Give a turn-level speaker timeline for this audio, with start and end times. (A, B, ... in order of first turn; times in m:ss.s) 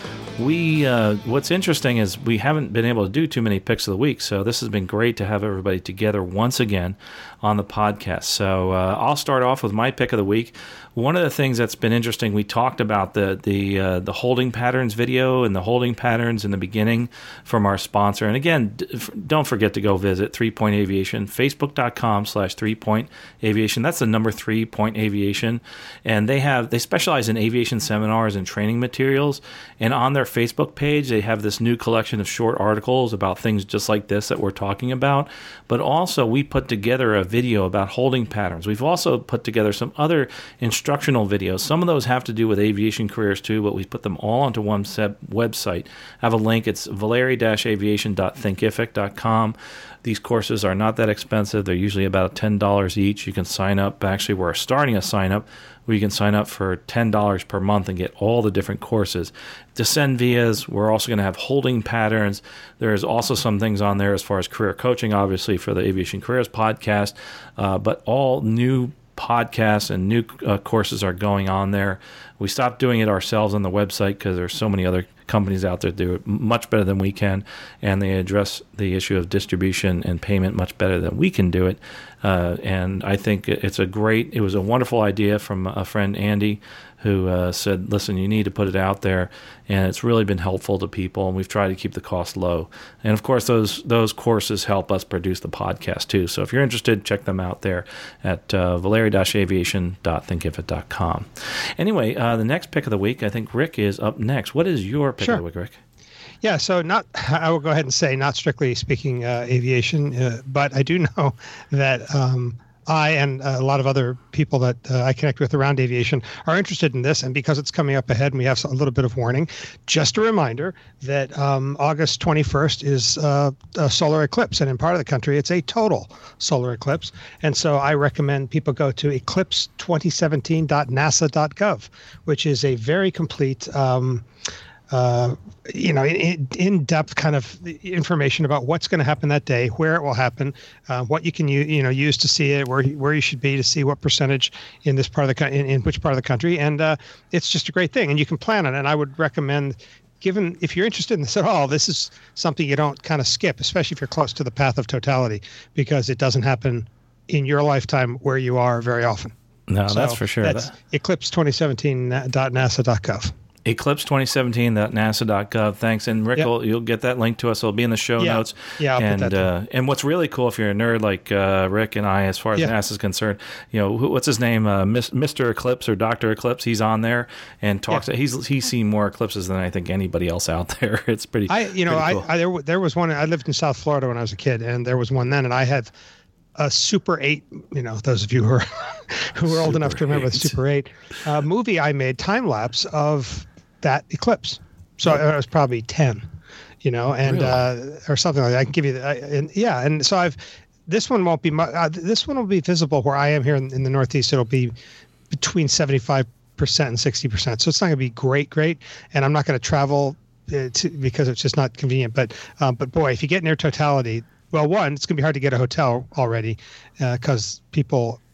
0:00.4-1:45.8 A
1:46.4-2:14.3 B
2:14.9-2:39.4 B
2:39.7-2:40.7 A
2:39.9-2:43.3 B
2:43.7-3:02.3 A
2:48.2-2:49.5 B
3:01.5-3:05.9 B
3:06.6-3:16.3 B
3:09.5-3:10.6 A
3:16.8-3:24.7 B
3:17.2-3:17.7 A
3:25.3-3:38.2 B